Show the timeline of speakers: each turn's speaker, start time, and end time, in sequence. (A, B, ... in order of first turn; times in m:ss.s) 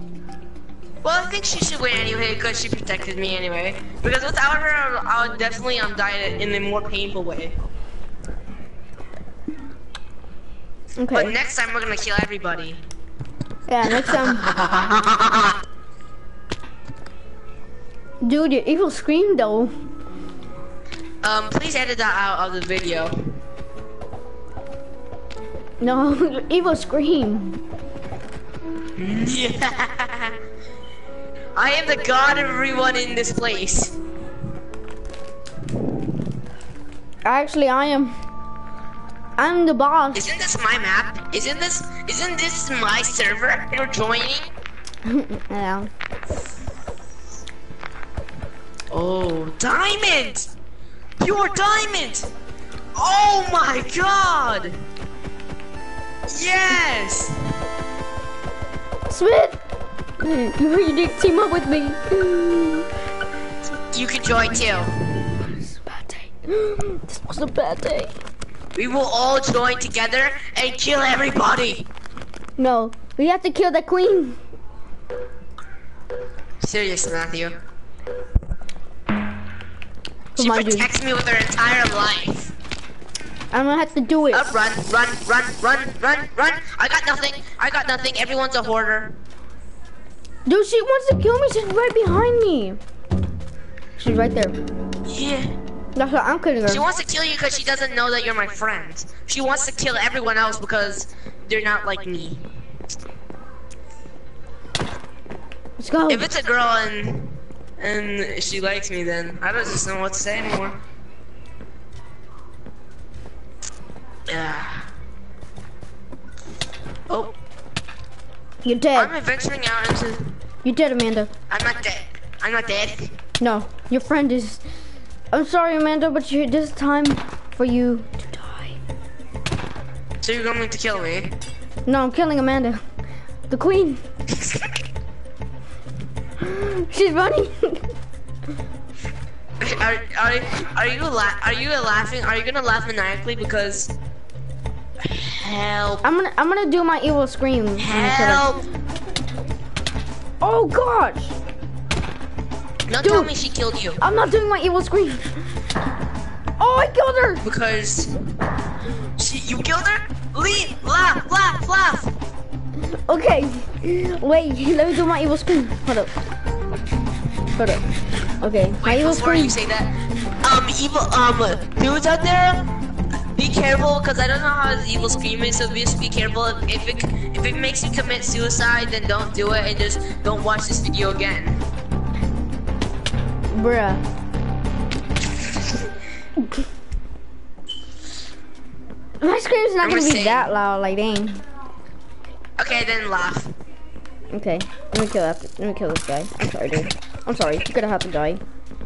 0:01.0-0:07.6 A
0:11.0-0:11.4 B
0:11.1-0:12.8 A
0:13.7-0:14.5 B
0:13.8-0:15.6 A
0:18.2-0:19.7 B
0:21.2-0:23.2 A
0:25.8-0:27.6 B
0:29.0-0:30.4 A
0:31.6-0:34.0 A
0:37.2-0:38.2 B
0:39.4-0:40.2 B
0:40.1-0:44.5 A
0:45.0-0:45.9 B
0:48.9-0:50.5 A
0:51.2-0:52.3 A
0:52.9-0:54.8 A
0:56.3-0:57.4 A
0:59.1-0:59.6 B
1:00.2-1:02.9 B
1:03.9-1:05.0 A
1:05.4-1:08.1 B
1:08.7-1:11.9 A
1:12.6-1:14.4 B
1:16.6-1:17.6 A
1:20.4-1:20.9 B
1:20.4-1:22.5 A
1:23.5-1:24.5 B
1:24.3-1:29.1 A
1:30.5-1:32.8 B
1:34.0-1:34.6 B
1:35.0-1:35.5 A
1:36.0-1:36.8 B
1:36.6-1:42.4 A
1:45.8-1:46.3 B
1:46.1-1:50.8 A
1:54.3-1:54.8 A
1:57.1-1:57.4 A
1:58.6-1:59.1 B
1:58.9-2:00.3 A
2:00.6-2:01.3 B
2:01.5-2:03.1 A
2:03.4-2:04.6 B
2:05.3-2:08.8 B
2:10.2-2:11.3 A
2:11.8-2:12.8 B
2:13.5-2:14.0 B
2:16.4-2:17.9 B
2:19.6-2:23.9 A
2:25.0-2:26.0 A
2:26.0-2:28.5 B
2:27.8-2:28.6 A
2:30.4-2:31.3 B
2:32.9-2:34.0 A
2:33.0-2:33.3 B
2:34.0-2:35.3 B
2:36.6-2:37.4 B
2:37.4-2:38.1 A
2:39.2-2:42.1 A
2:43.1-2:46.1 B
2:47.6-2:47.8 B
2:48.4-2:49.6 B
2:48.8-2:52.7 A
2:53.3-3:01.6 A
3:03.5-3:04.0 B
3:09.2-3:11.4 B
3:09.8-3:10.5 A
3:12.6-3:13.5 A
3:14.3-3:18.4 B